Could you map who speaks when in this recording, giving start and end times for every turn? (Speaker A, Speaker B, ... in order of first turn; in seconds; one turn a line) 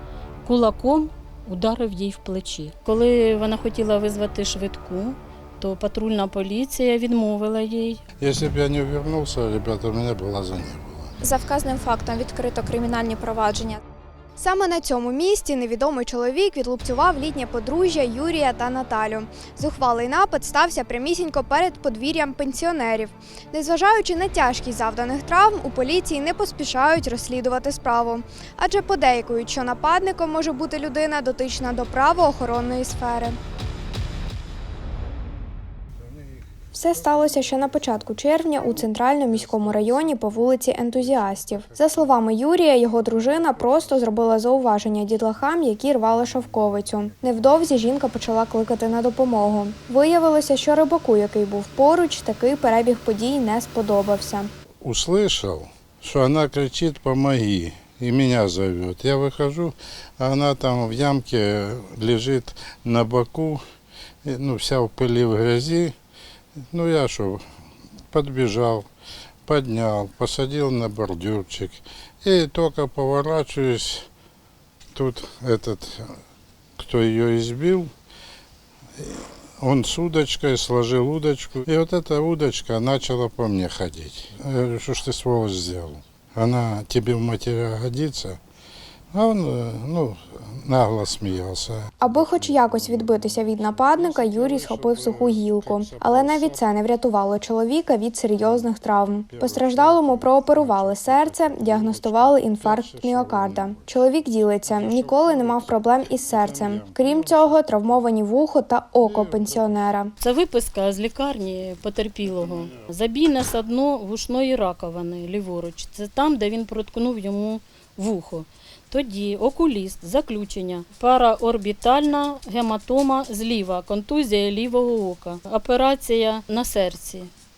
Speaker A: 0.4-8.0
Speaker B: 8.2-11.1
Speaker C: 11.2-13.8
Speaker D: 14.4-33.4
Speaker B: 36.1-36.4
Speaker D: 36.7-54.5
Speaker B: 36.9-42.2
Speaker B: 42.9-44.2
Speaker B: 54.8-63.6
Speaker B: 64.2-65.9
Speaker B: 66.7-67.4
Speaker B: 68.1-68.9
Speaker B: 69.5-74.1
Speaker B: 74.9-76.1
Speaker B: 76.8-77.9
Speaker B: 79.0-88.4
Speaker B: 89.1-96.6
Speaker D: 92.0-110.1
Speaker B: 98.4-98.7
Speaker B: 99.3-103.9
Speaker B: 104.8-108.0
Speaker B: 109.0-109.8
Speaker A: 110.2-127.3